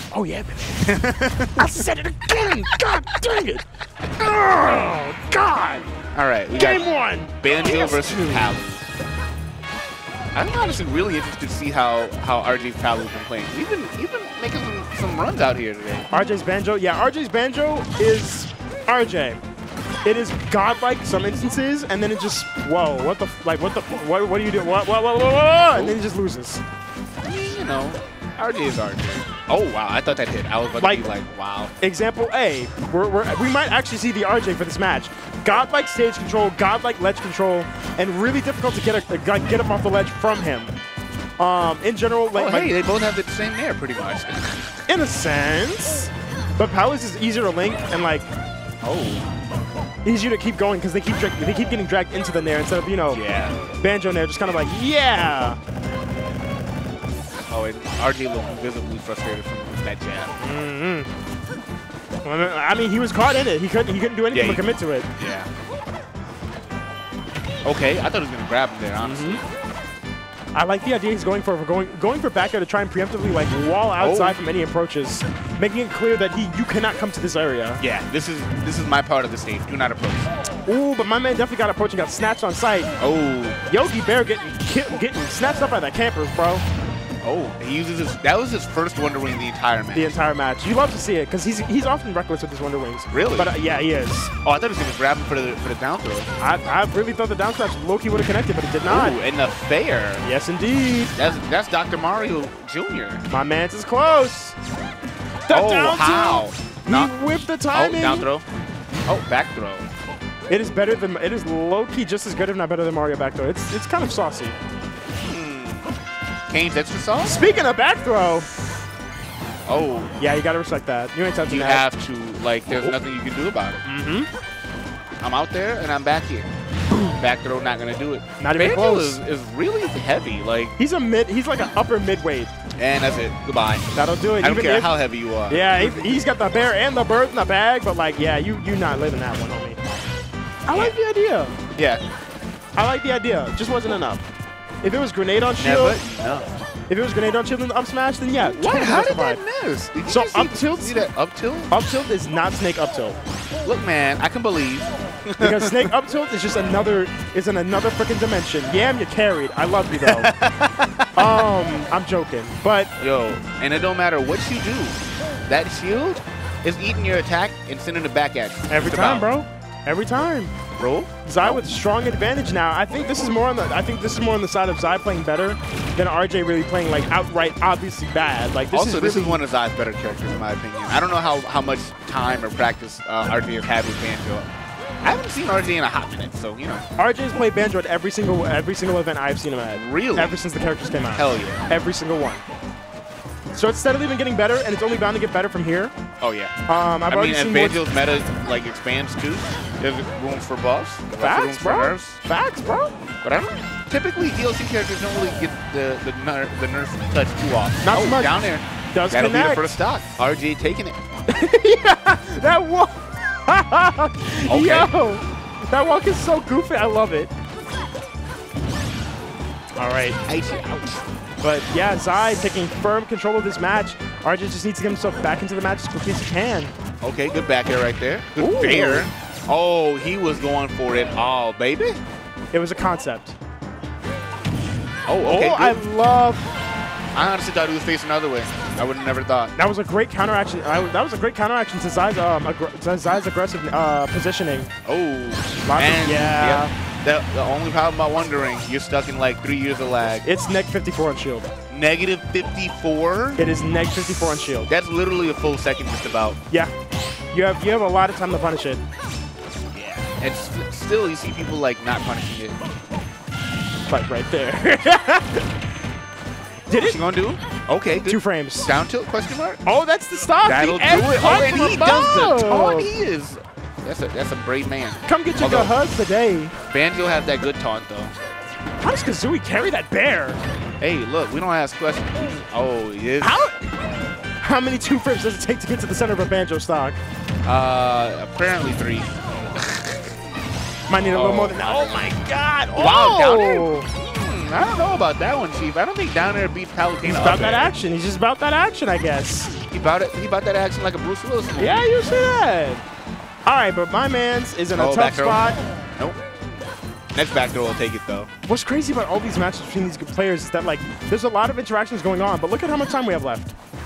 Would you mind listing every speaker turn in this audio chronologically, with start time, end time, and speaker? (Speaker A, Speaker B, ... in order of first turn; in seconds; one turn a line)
Speaker A: 0.1-0.8
Speaker B: 0.8-1.8
Speaker A: 1.6-3.6
Speaker A: 4.2-5.9
Speaker B: 6.1-6.9
Speaker A: 6.5-8.6
Speaker B: 7.4-8.8
Speaker B: 10.3-16.1
Speaker A: 16.1-19.4
Speaker A: 20.0-26.6
Speaker B: 27.2-31.7
Speaker A: 30.8-31.1
Speaker A: 31.8-40.7
Speaker A: 41.4-42.8
Speaker B: 42.3-44.8
Speaker A: 44.9-48.3
Speaker B: 48.8-49.3
Speaker A: 50.0-53.2
Speaker B: 53.1-53.5
Speaker A: 53.8-55.6
Speaker B: 57.5-60.3
Speaker A: 60.4-61.1
Speaker A: 62.2-65.1
Speaker B: 64.3-64.6
Speaker B: 65.2-65.5
Speaker B: 67.6-69.5
Speaker A: 69.0-69.4
Speaker A: 70.5-77.8
Speaker B: 74.0-74.4
Speaker B: 77.8-80.3
Speaker A: 80.6-82.9
Speaker B: 83.0-83.6
Speaker A: 83.7-86.6
Speaker B: 87.2-90.2
Speaker A: 89.9-94.3
Speaker B: 93.1-93.5
Speaker B: 94.4-96.3
Speaker A: 96.4-99.2
Speaker B: 98.8-100.2
Speaker A: 100.2-101.1
Speaker B: 101.1-103.2
Speaker A: 103.3-104.5
Speaker A: 105.5-108.3
Speaker B: 105.5-107.1
Speaker B: 107.7-108.4
Speaker B: 109.0-109.9
Speaker A: 110.5-114.6
Speaker B: 115.3-115.9
Speaker B: 116.5-117.4
Speaker A: 117.2-118.5
Speaker B: 119.7-120.2
Speaker A: 120.2-121.8
Speaker B: 121.5-123.8
Speaker A: 123.8-124.3
Speaker B: 125.2-126.5
Speaker B: 127.1-130.7
Speaker A: 128.4-129.2
Speaker A: 130.8-132.5
Speaker B: 132.8-136.1
Speaker A: 133.9-134.9
Speaker A: 135.5-139.8
Speaker A: 140.7-141.6
Speaker B: 140.7-140.9
Speaker B: 141.8-142.0
Speaker A: 142.8-144.2
Speaker A: 144.8-146.0
Speaker B: 145.6-146.6
Speaker A: 146.9-149.4
Speaker B: 148.4-151.7
Speaker A: 150.0-151.1
Speaker A: 151.7-153.2
Speaker B: 153.6-155.9
Speaker A: 155.4-160.3
Speaker B: 159.9-161.4
Speaker A: 161.2-162.9
Speaker B: 163.0-169.2
Speaker A: 168.7-170.5
Speaker B: 170.8-171.6
Speaker A: 171.2-179.4
Speaker B: 178.7-184.5
Speaker B: 185.0-186.8
Speaker A: 187.0-192.4
Speaker B: 189.7-190.4
Speaker B: 191.2-191.7
Speaker A: 193.5-195.9
Speaker B: 196.2-196.5
Speaker A: 196.7-197.8
Speaker B: 197.1-202.2
Speaker A: 201.1-202.9
Speaker B: 203.2-211.0
Speaker A: 207.8-209.8
Speaker A: 211.3-217.3
Speaker B: 214.5-214.9
Speaker A: 219.8-220.2
Speaker B: 220.2-221.0
Speaker A: 221.4-226.7
Speaker B: 227.0-232.0
Speaker A: 228.4-229.1
Speaker A: 232.5-233.4
Speaker B: 235.1-235.8
Speaker A: 235.2-236.4
Speaker B: 237.1-239.5
Speaker A: 239.6-244.7
Speaker B: 244.8-250.2
Speaker A: 245.7-246.7
Speaker A: 250.2-251.5
Speaker B: 251.7-253.4
Speaker A: 253.4-254.7
Speaker B: 254.7-256.4
Speaker A: 257.3-258.8
Speaker B: 259.7-262.6
Speaker A: 263.9-265.5
Speaker A: 266.7-267.0
Speaker B: 266.7-269.6
Speaker A: 268.1-268.7
Speaker A: 269.6-272.9
Speaker B: 270.4-275.7
Speaker A: 275.0-276.5
Speaker B: 276.7-278.1
Speaker A: 278.8-280.4
Speaker B: 280.8-283.5
Speaker A: 283.2-283.7
Speaker A: 284.4-287.0
Speaker B: 287.4-290.1
Speaker A: 290.9-293.9
Speaker B: 291.1-292.1
Speaker B: 292.7-297.7
Speaker A: 297.0-299.5
Speaker B: 299.7-301.9
Speaker A: 301.6-302.8
Speaker A: 303.4-305.6
Speaker B: 304.7-306.2
Speaker B: 307.1-308.3
Speaker A: 308.5-313.5